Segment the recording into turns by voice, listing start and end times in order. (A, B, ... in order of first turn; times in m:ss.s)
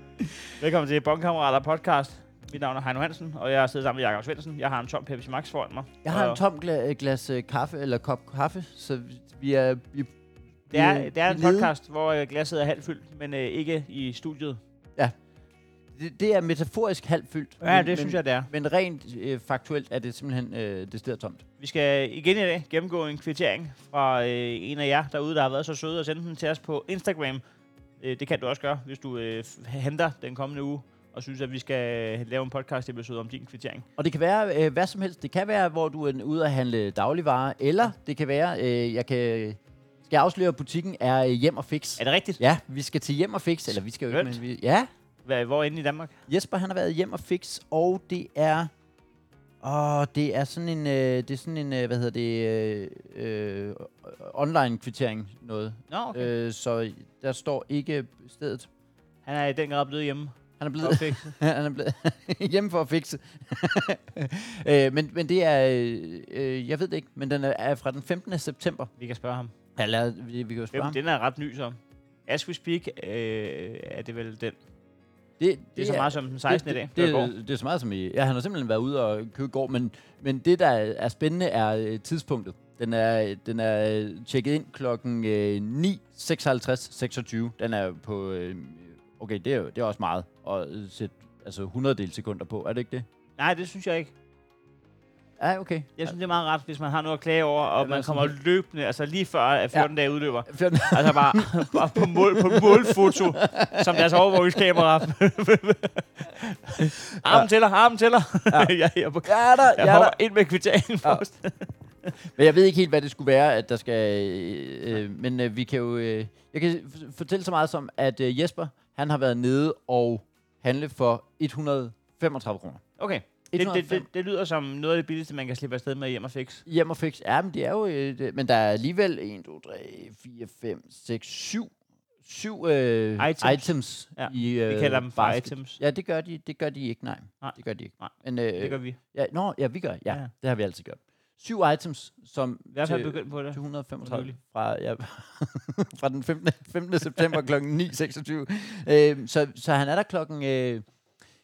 0:00.2-0:00.5 A
0:00.6-0:06.4 B
0:06.0-0:10.1 A
0:10.7-0:11.7 A
0:10.7-0:14.6 B
0:15.9-0:21.4 A
0:17.6-0:18.5 B
0:21.6-0:27.4 B
0:28.0-0:33.8 B
0:34.0-0:44.9 A
0:42.0-0:42.4 B
0:44.1-0:44.4 B
0:45.2-0:46.2 B
0:46.3-0:48.7 A
0:49.6-0:58.7 A
0:55.9-0:56.3 B
0:59.2-1:01.3 B
1:00.6-1:08.9 A
1:09.0-1:09.5 B
1:09.8-1:11.0 A
1:10.7-1:14.6 B
1:15.4-1:33.0 A
1:15.8-1:17.3 B
1:33.4-1:34.1 B
1:35.4-1:36.1 A
1:36.0-1:51.7 B
1:37.8-1:38.3 A
1:40.4-1:44.5 A
1:49.2-1:50.2 A
1:52.2-2:02.8 A
2:03.0-2:06.6 B
2:03.5-2:04.1 A
2:06.6-2:30.9 A
2:13.2-2:15.8 B
2:17.4-2:19.0 B
2:22.7-2:24.4 B